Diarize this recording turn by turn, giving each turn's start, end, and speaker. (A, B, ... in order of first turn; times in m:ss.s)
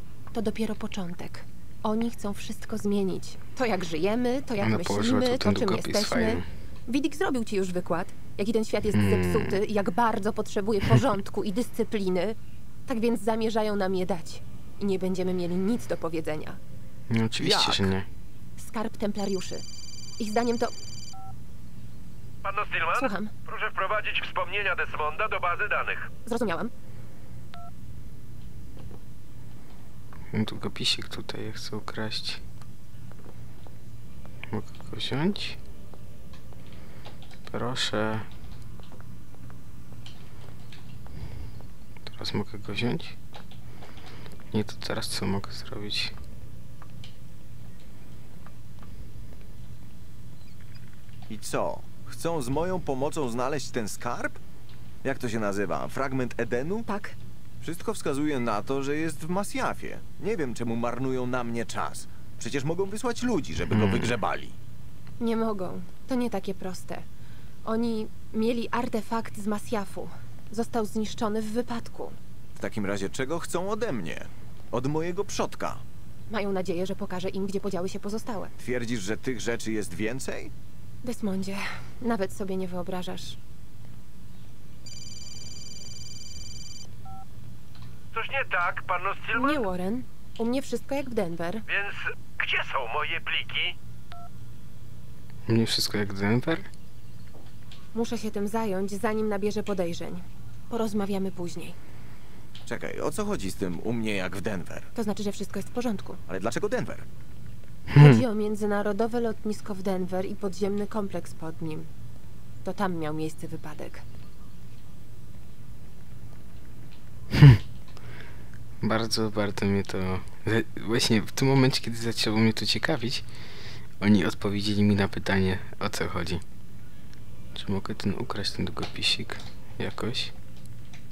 0:00.3-0:16.6 A
0:04.6-0:06.5 B
0:08.9-0:09.6 B
0:17.1-0:18.1 B
0:17.4-0:17.9 C
0:18.6-0:19.6 A
0:20.2-0:20.7 A
0:22.4-0:26.1 D
0:22.9-0:23.3 A
0:26.2-0:26.7 A
0:30.3-0:32.4 B
0:34.5-0:35.6 B
0:37.5-0:38.3 B
0:42.1-0:43.2 B
0:44.5-0:46.2 B
0:51.3-0:54.4 C
0:55.0-0:56.8 C
0:56.9-0:57.2 A
0:57.6-1:04.6 C
1:03.7-1:04.2 B
1:05.2-1:07.1 A
1:07.6-1:12.2 A
1:12.6-1:15.8 C
1:16.3-1:18.5 A
1:18.6-1:20.5 C
1:21.0-1:23.4 A
1:28.1-1:29.6 D
1:29.3-1:31.6 A
1:31.7-1:33.8 D
1:35.5-1:36.7 B
1:37.9-1:41.8 A
1:42.7-1:44.9 C
1:44.9-1:46.2 A
1:46.3-1:47.1 C
1:47.9-1:48.2 B
1:48.0-1:51.9 A
1:52.6-1:54.0 A
1:57.3-1:57.6 B
1:58.8-2:03.3 B
2:04.0-2:06.4 B
2:07.5-2:10.3 B